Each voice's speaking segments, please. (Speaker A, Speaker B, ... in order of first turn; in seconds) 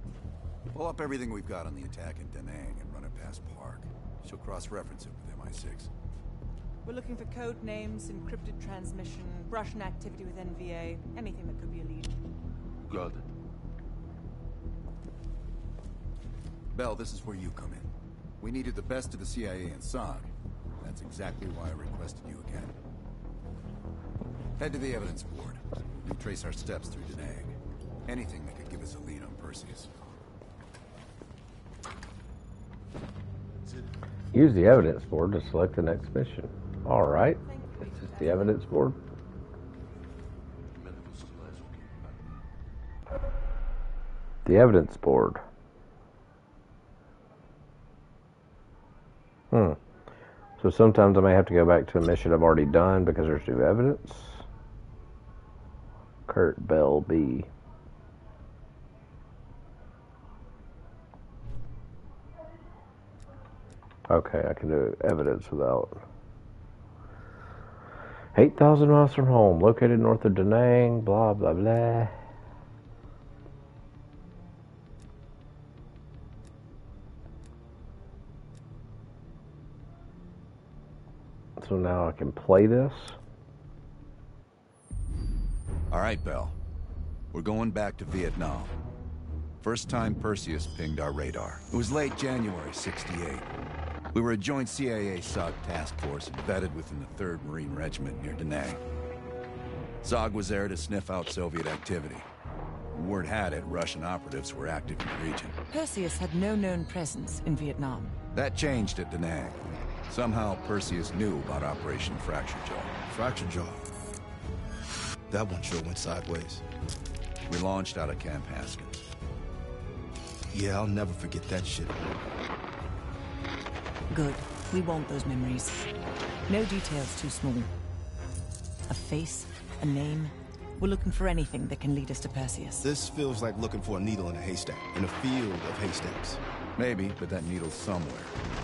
Speaker A: 0.7-5.9, 12.9-13.2, 16.7-17.9, 18.4-22.7, 24.6-29.9, 40.8-42.1, 85.9-86.6, 87.3-88.7, 89.6-93.5, 94.1-98.8, 100.0-102.3, 102.9-105.5, 108.3-113.0, 117.5-119.0, 136.8-138.3
Speaker B: 6.8-12.2, 37.2-38.7, 105.7-108.1, 124.1-125.9, 126.5-127.7, 128.9-132.9
Speaker C: 34.3-39.0, 44.4-45.4, 49.5-49.8, 50.6-54.4, 56.3-57.5, 64.1-66.0, 68.3-72.1, 81.6-83.2
Speaker D: 113.1-113.8, 115.3-116.6, 120.5-122.0, 132.8-136.4